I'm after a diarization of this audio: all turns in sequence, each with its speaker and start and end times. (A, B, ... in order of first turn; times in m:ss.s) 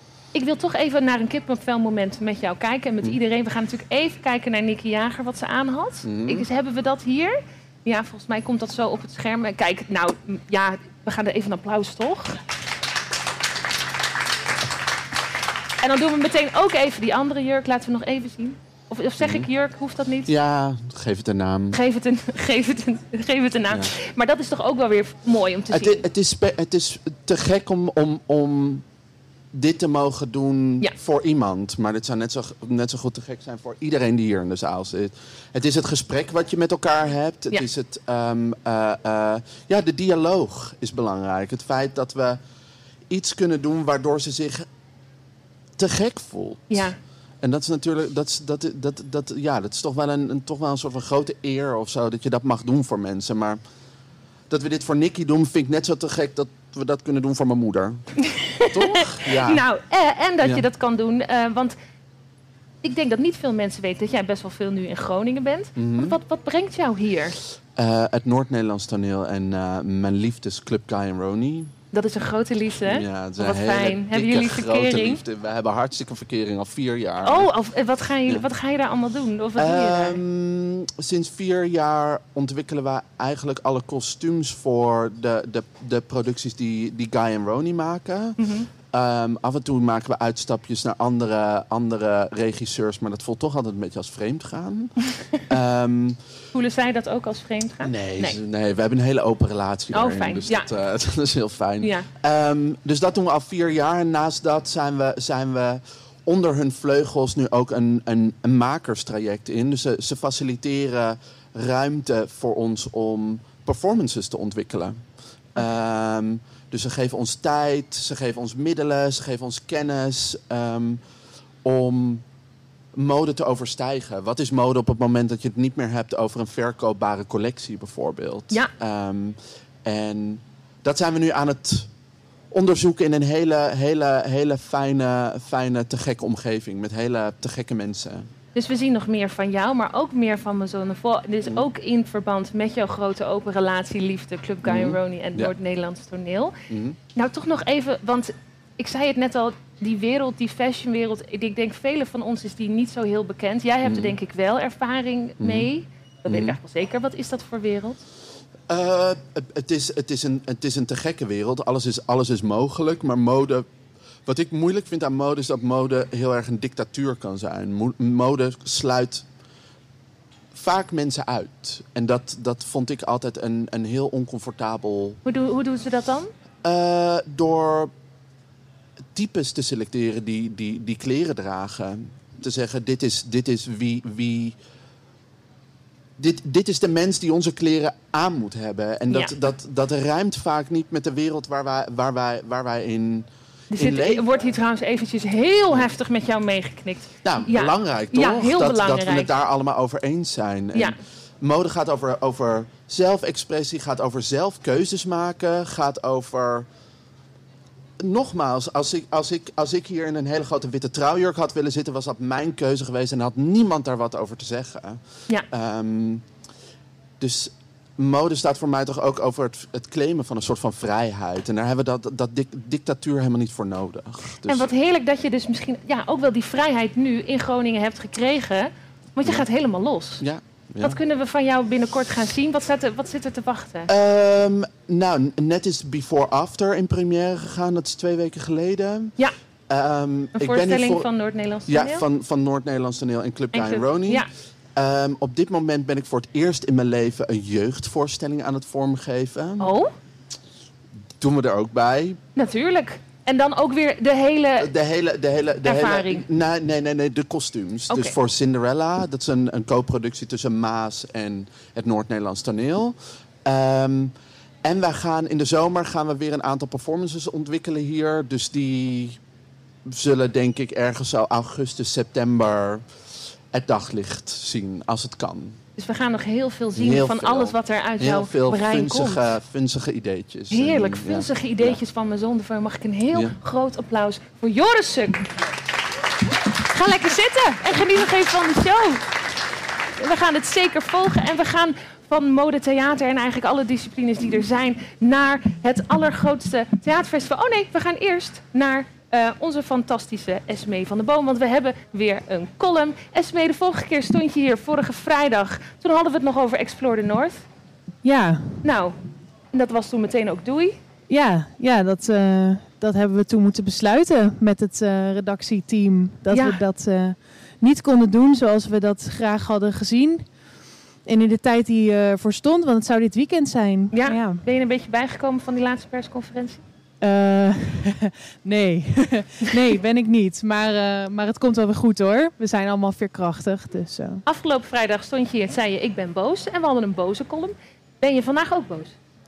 0:00.3-0:12.4 A
0:06.0-0:06.5 B
0:15.8-0:20.3 A
0:19.2-0:19.5 B
0:20.3-0:21.8 B
0:21.7-0:26.0 A
0:25.7-0:28.8 B
0:29.5-0:42.4 B
0:43.1-0:44.7 B
0:45.8-0:53.6 B
0:46.7-0:47.0 A
0:54.5-0:58.1 B
0:58.4-1:01.8 A
0:58.7-0:59.6 B
1:02.8-1:07.4 A
1:05.8-1:06.2 B
1:07.8-1:11.7 B
1:11.9-1:15.2 A
1:12.8-1:17.5 B
1:17.2-1:20.2 A
1:19.6-1:28.4 B
1:28.4-1:28.7 A
1:28.9-1:36.2 B
1:36.5-1:38.4 A
1:37.8-1:55.0 B
1:39.9-1:40.7 A
1:41.8-1:42.1 A
1:55.6-2:01.0 B
2:01.6-2:02.2 B
2:03.0-2:11.9 B
2:12.5-2:18.3 B
2:18.6-2:26.6 A
2:24.6-2:25.5 B
2:26.7-2:27.0 B
2:27.2-2:38.0 A
2:33.8-2:34.2 B
2:35.4-2:35.7 B
2:36.3-2:36.6 B
2:38.7-2:43.7 B
2:44.3-2:49.2 B
2:50.5-2:55.2 B
2:55.3-2:56.3 A
2:56.6-2:57.9 B
2:59.2-3:04.6 B
3:06.2-3:14.3 B
3:13.8-3:19.3 A
3:17.2-3:26.7 B
3:28.0-3:36.2 B
3:37.2-3:44.7 B
3:44.5-3:50.2 A
3:50.2-3:51.0 B
3:50.8-3:53.9 A
3:53.9-3:59.1 B
3:59.7-4:01.1 B
4:00.4-4:02.0 A
4:01.7-4:09.7 B
4:03.5-4:04.3 A
4:09.6-4:09.9 A
4:11.2-4:12.2 B
4:12.4-4:14.7 A
4:14.6-4:29.2 B
4:15.6-4:16.2 A
4:17.9-4:18.2 A
4:29.9-4:32.8 B
4:33.5-4:35.6 B
4:35.8-4:39.4 A
4:36.7-4:41.8 B
4:40.5-4:45.3 A
4:46.7-4:49.1 A
4:50.0-5:07.4 A
5:08.0-5:08.6 C
5:08.6-5:09.0 A
5:09.5-5:10.8 A
5:11.1-5:20.2 C
5:16.3-5:16.6 A
5:21.1-5:24.4 C
5:23.9-5:26.6 A
5:27.0-5:34.2 C
5:34.3-5:39.0 A